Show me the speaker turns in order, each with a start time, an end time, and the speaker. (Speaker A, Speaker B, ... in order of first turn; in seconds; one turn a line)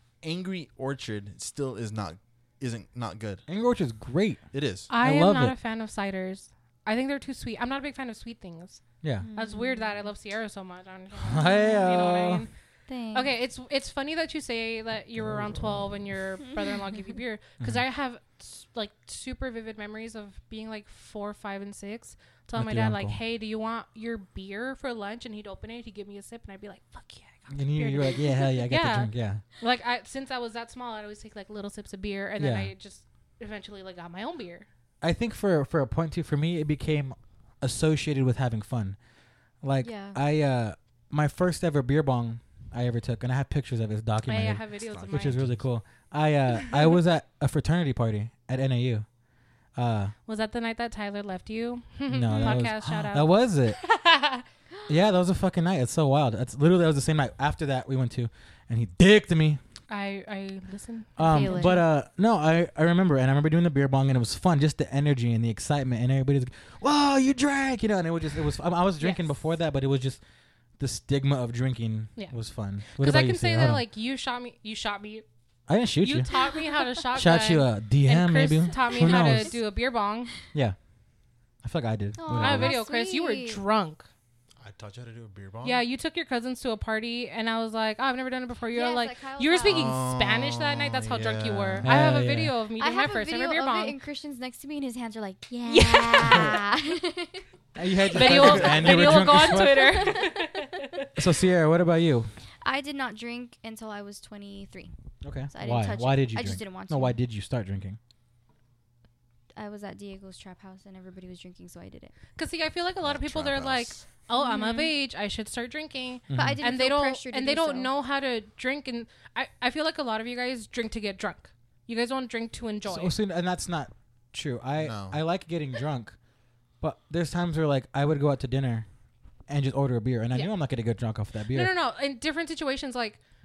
Speaker A: 0.2-3.5
Speaker B: 3.5-5.5
Speaker A: 4.5-4.9
Speaker C: 4.9-12.5
Speaker B: 9.0-9.3
Speaker D: 9.2-10.1
Speaker B: 11.2-12.4
Speaker D: 11.4-11.7
Speaker D: 12.9-13.3
Speaker C: 13.1-34.6
Speaker A: 15.3-15.9
Speaker B: 22.5-23.2
Speaker B: 27.5-29.4
Speaker B: 32.4-32.7
Speaker B: 35.0-39.0
Speaker B: 39.6-49.1
Speaker D: 39.8-40.2
Speaker C: 44.3-45.4
Speaker A: 44.8-45.6
Speaker B: 49.7-50.1
Speaker C: 50.3-54.5
Speaker B: 52.1-53.8
Speaker D: 52.3-52.6
Speaker B: 54.9-59.6
Speaker C: 59.9-61.8
Speaker B: 61.2-70.2
Speaker D: 61.2-61.8
Speaker C: 69.0-69.3
Speaker B: 70.8-73.8
Speaker C: 72.9-75.2
Speaker B: 75.7-76.3
Speaker C: 76.0-80.3
Speaker B: 77.1-79.6
Speaker D: 78.7-79.5
Speaker B: 81.6-82.7
Speaker D: 82.2-83.6
Speaker C: 82.3-84.0
Speaker A: 84.6-85.8
Speaker C: 85.6-94.0
Speaker D: 88.7-90.0
Speaker A: 89.6-91.9
Speaker B: 91.8-92.5
Speaker D: 92.8-97.5
Speaker C: 95.7-96.6
Speaker B: 97.7-100.2
Speaker C: 98.1-101.1
Speaker D: 98.1-100.8
Speaker B: 101.2-102.3
Speaker D: 102.6-104.9
Speaker B: 105.2-108.0
Speaker D: 105.5-107.2
Speaker D: 109.5-112.1
Speaker C: 112.4-123.1
Speaker A: 113.0-114.0
Speaker D: 114.3-114.9
Speaker B: 116.3-116.6
Speaker D: 116.3-117.9
Speaker B: 122.8-126.2
Speaker A: 124.8-125.2
Speaker B: 126.8-128.9
Speaker B: 129.5-131.7
Speaker C: 131.5-133.2